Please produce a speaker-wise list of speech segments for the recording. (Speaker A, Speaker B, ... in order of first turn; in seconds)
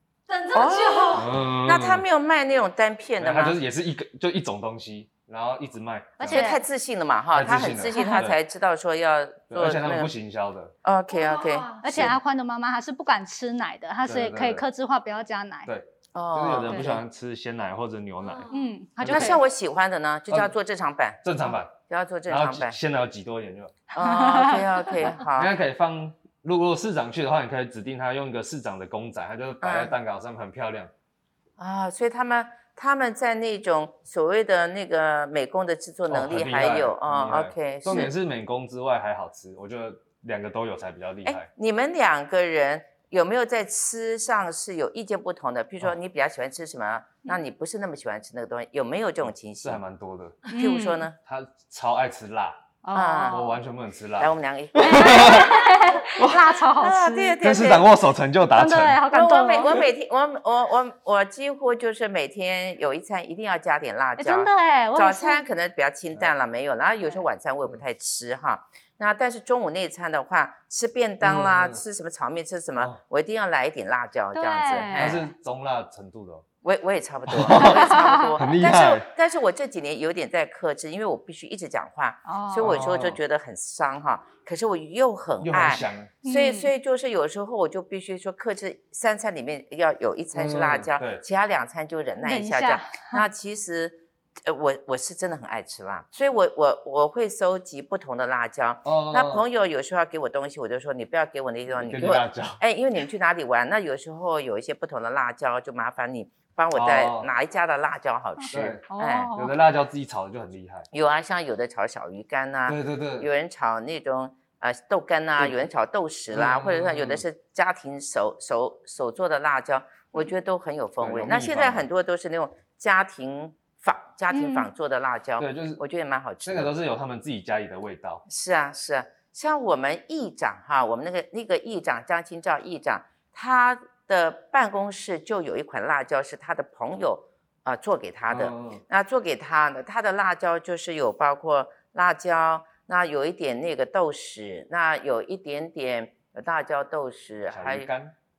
Speaker A: 0.3-1.3, 11.1-11.9, 18.2-18.7
Speaker B: 0.5-3.6, 6.3-10.1, 10.8-11.7, 16.1-17.0, 19.1-22.8, 23.9-25.5, 29.6-29.9, 31.6-38.1, 41.2-49.8, 50.5-51.2, 52.9-53.5, 54.2-55.6, 56.8-57.9, 59.1-75.3, 76.6-109.3, 110.9-126.7, 128.3-147.9
Speaker C: 1.1-2.0, 3.2-6.5, 7.3-8.4, 9.5-10.7, 11.9-12.2, 14.1-14.7, 15.7-18.5, 19.0-19.4, 21.2-21.7, 22.3-23.7, 25.4-30.9, 36.1-41.5, 49.6-50.5, 51.3-52.6, 53.3-55.6, 56.2-56.5, 57.4-59.1, 71.2-71.8, 75.0-76.4, 77.3-79.1, 82.6-83.2, 85.4-86.1, 90.3-91.2, 98.8-99.4, 101.8-102.6, 106.7-107.3, 108.5-110.9, 112.7-113.3, 115.4-115.6, 116.3-117.2, 121.0-121.9, 125.4-125.8, 126.4-128.2, 138.3-138.8, 147.5-148.1
Speaker D: 6.2-6.6, 11.8-15.7, 18.5-19.4, 24.0-25.1, 50.5-51.0, 52.8-53.6, 54.8-57.4, 58.5-59.8, 64.2-65.4, 74.3-75.2, 77.5-78.4, 82.2-82.8, 86.2-86.7, 92.2-93.2, 108.5-109.6, 124.3-124.7